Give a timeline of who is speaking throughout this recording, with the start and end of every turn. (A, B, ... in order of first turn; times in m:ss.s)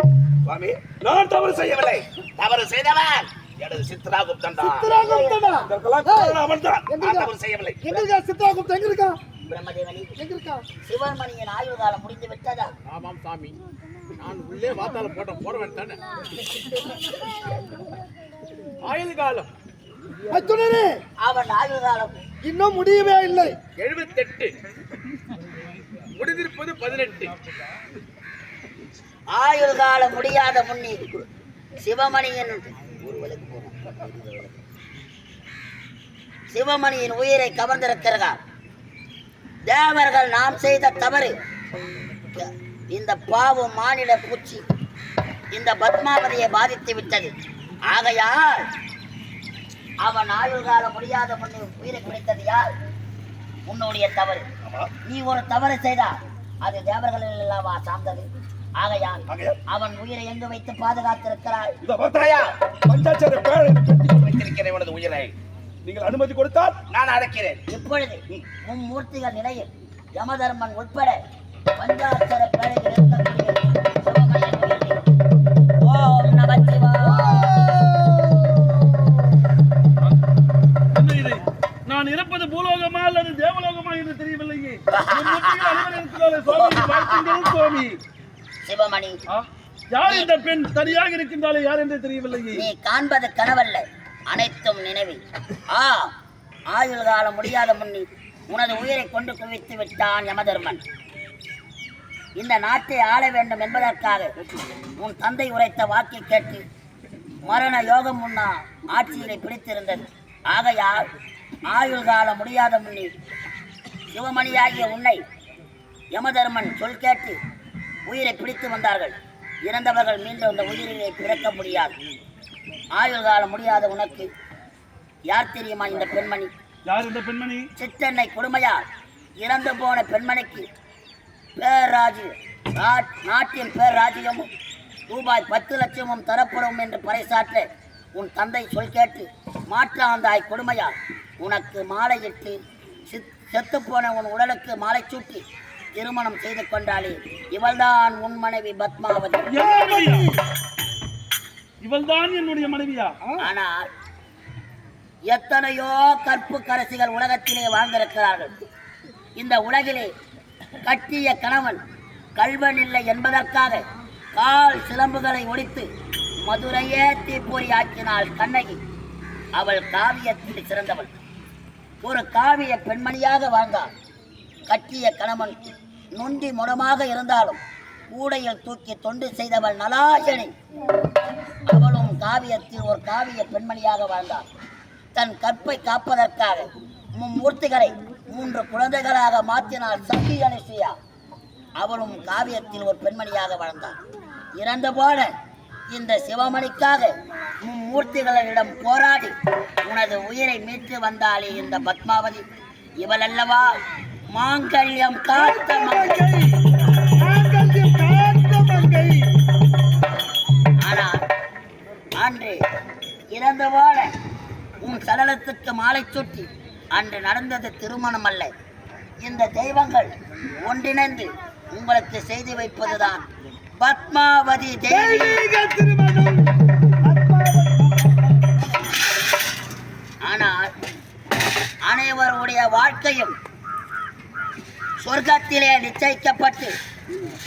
0:00.4-0:04.9 A
0:04.6-0:09.2 B
0:04.9-0:05.7 C
0:05.7-0:07.8 A
0:09.4-0:10.1 C
0:10.2-0:10.6 B
0:10.8-0:12.7 C
0:12.8-0:13.6 D
0:14.2-0:16.0 D
0:18.8-0:19.5 D
0:20.3-0:21.0 B
0:21.2-0:22.2 C
0:22.4-0:23.6 B
0:23.8-0:24.5 D
0:26.1-0:27.4 D
0:29.3-0:31.2 C
0:31.8-0:33.7 C
0:36.5-0:38.4 C
0:39.7-0:41.3 C
0:42.4-0:44.6 C
0:45.5-0:47.3 C
0:47.9-0:48.6 C
0:50.0-0:52.7 C
0:53.7-0:54.4 C
0:54.6-0:54.9 A
0:55.0-0:58.3 C
0:58.8-1:01.8 C
0:59.3-0:59.6 A
1:01.8-1:07.6 A
1:07.7-1:11.2 C
1:11.8-1:15.0 C
1:15.8-1:17.6 C
1:17.0-1:19.2 B
1:20.9-1:28.0 E
1:24.9-1:25.9 C
1:26.5-1:27.4 C
1:28.6-1:29.2 C
1:29.3-1:32.7 E
1:30.0-1:30.3 C
1:32.5-1:36.1 C
1:36.7-1:40.8 C
1:42.4-1:44.3 C
1:45.0-1:46.6 C
1:47.4-1:51.1 C
1:51.7-1:53.1 C
1:54.1-1:55.2 C
1:56.1-1:57.4 C
1:58.1-1:59.2 C
1:59.7-2:01.9 C
2:02.9-2:04.3 C
2:05.3-2:06.5 C
2:06.8-2:07.7 E
2:07.8-2:08.8 C
2:09.4-2:10.6 C
2:11.6-2:14.5 C
2:15.1-2:22.6 C
2:23.1-2:25.4 C
2:26.0-2:29.5 C
2:29.5-2:30.3 E
2:29.6-2:30.3 B
2:31.8-2:33.3 E
2:33.4-2:33.9 C
2:35.3-2:38.5 C
2:39.4-2:40.1 C
2:40.8-2:41.8 C
2:42.4-2:43.8 C
2:44.3-2:45.9 C
2:46.4-2:48.8 C
2:49.6-2:51.1 C
2:52.0-2:53.9 C
2:54.7-2:55.6 C
2:56.1-2:57.6 C
2:58.1-3:00.5 C
3:01.6-3:04.4 C
3:05.1-3:10.9 C
3:11.8-3:14.0 C
3:14.6-3:15.3 C
3:15.9-3:17.1 C
3:17.6-3:19.3 C
3:19.8-3:22.4 C
3:23.0-3:23.7 C
3:24.3-3:26.2 C
3:25.3-3:26.6 B
3:27.2-3:29.3 B
3:30.8-3:31.2 C
3:32.2-3:32.6 C
3:33.3-3:34.1 C
3:34.8-3:38.5 C
3:39.2-3:43.2 C
3:43.8-3:45.4 C
3:44.9-3:48.3 B
3:50.2-3:50.7 C
3:51.9-3:53.3 C
3:55.0-3:56.7 C